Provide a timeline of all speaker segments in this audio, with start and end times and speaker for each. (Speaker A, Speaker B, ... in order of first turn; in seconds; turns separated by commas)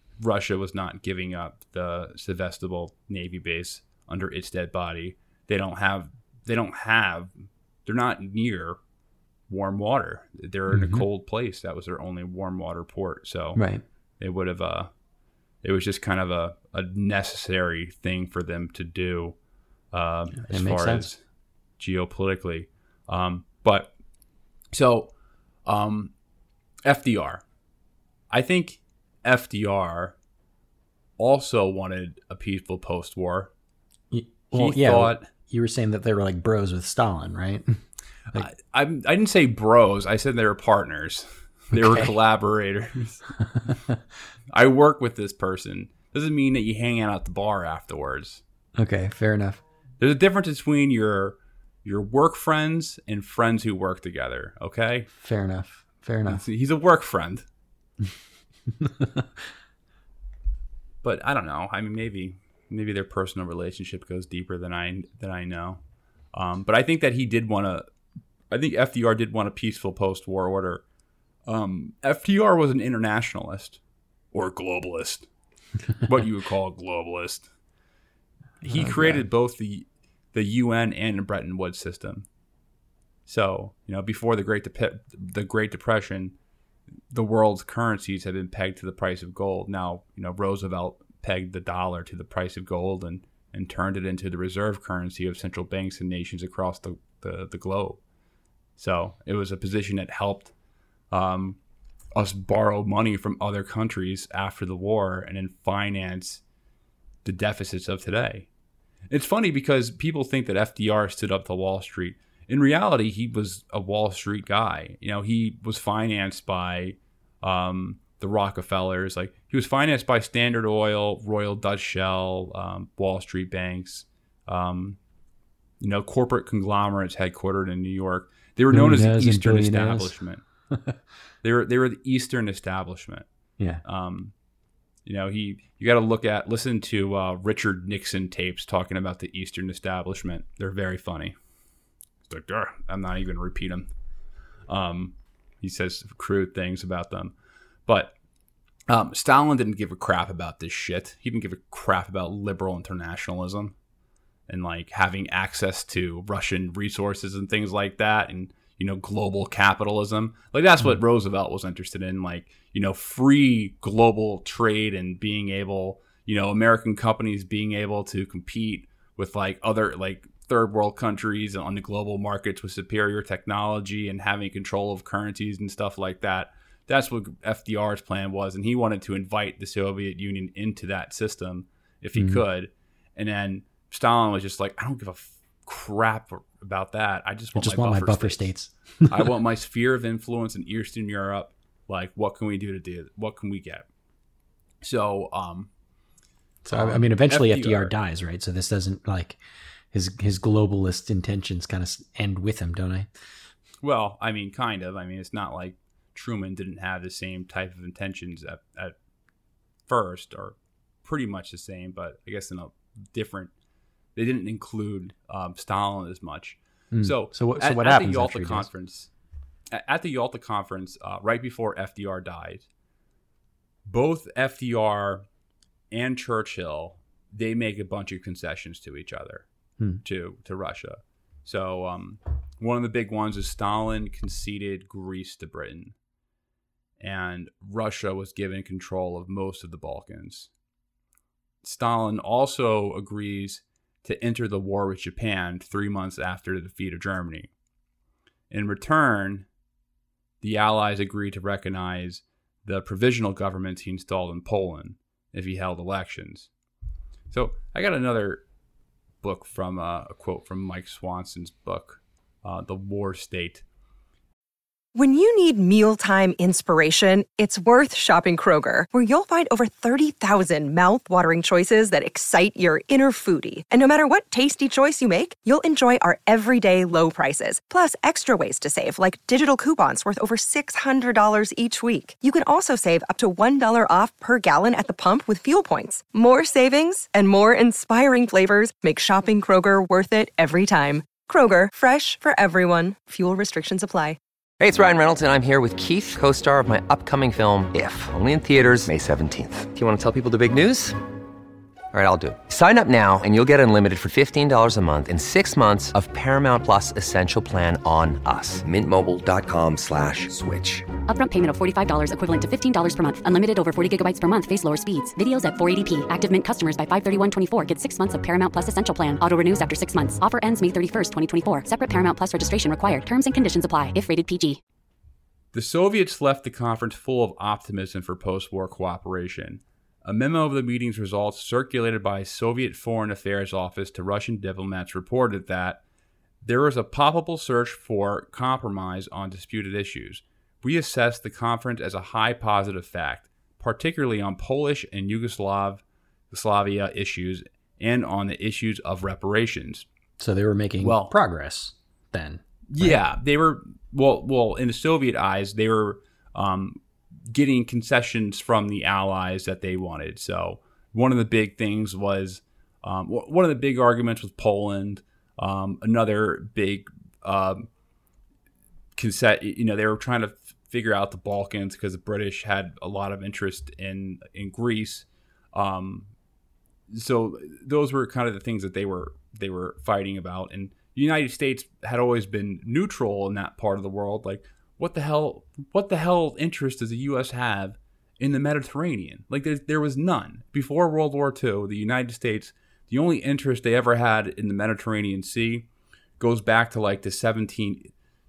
Speaker A: 0.2-7.3, Speaker A: 7.9-8.8, Speaker A: 9.5-13.6, Speaker B: 10.7-11.1, Speaker B: 13.6-13.8, Speaker A: 14.2-14.9, Speaker A: 15.6-19.4, Speaker A: 19.9-21.2, Speaker B: 20.4-21.1, Speaker A: 21.8-23.9, Speaker A: 24.7-25.1, Speaker A: 25.7-26.1, Speaker A: 26.9-27.4, Speaker A: 28.3-30.1, Speaker A: 31.2-33.5, Speaker B: 34.1-37.8, Speaker A: 34.5-35.3, Speaker A: 38.3-43.3, Speaker B: 41.8-42.1, Speaker B: 43.5-44.0, Speaker A: 44.5-48.4, Speaker B: 48.8-49.6, Speaker A: 50.0-55.1, Speaker B: 55.2-56.4, Speaker A: 56.3-57.5, Speaker B: 58.8-59.3, Speaker A: 61.0-65.8, Speaker A: 66.3-67.8, Speaker A: 68.5-70.8, Speaker A: 71.5-73.8, Speaker A: 74.3-75.3, Speaker A: 76.0-77.5, Speaker B: 78.6-79.2, Speaker A: 78.6-82.3, Speaker A: 83.3-86.3, Speaker A: 87.1-98.0, Speaker A: 98.8-100.5, Speaker A: 101.1-101.6, Speaker A: 102.2-106.4, Speaker A: 107.2-108.5, Speaker A: 109.1-125.0, Speaker A: 125.8-130.4, Speaker B: 128.7-130.2, Speaker A: 131.4-133.3, Speaker A: 133.8-134.3, Speaker A: 135.1-141.3, Speaker A: 142.3-143.9, Speaker A: 144.7-147.3, Speaker A: 147.9-148.1, Speaker A: 148.9-153.7, Speaker A: 154.5-188.5, Speaker B: 182.2-182.4, Speaker B: 187.5-189.3, Speaker A: 189.1-193.9, Speaker A: 194.8-195.7, Speaker B: 196.6-199.4, Speaker A: 196.7-197.9, Speaker B: 199.9-203.1, Speaker A: 203.8-208.9, Speaker A: 209.9-213.5, Speaker A: 214.2-219.1, Speaker B: 216.9-218.7, Speaker A: 219.7-222.7, Speaker A: 223.8-225.2, Speaker A: 225.9-229.5, Speaker A: 230.0-235.9, Speaker A: 237.0-240.5, Speaker A: 241.6-247.5, Speaker A: 248.5-249.5, Speaker A: 250.4-256.5, Speaker A: 257.3-258.4, Speaker A: 259.2-263.6, Speaker C: 264.9-294.2, Speaker D: 294.6-301.0, Speaker D: 301.9-310.9, Speaker E: 311.1-324.6, Speaker A: 325.5-335.8, Speaker A: 336.4-349.9, Speaker B: 350.2-353.0, Speaker A: 350.8-351.1, Speaker A: 352.7-367.7, Speaker A: 369.0-376.1, Speaker A: 376.9-395.7, Speaker A: 396.2-397.9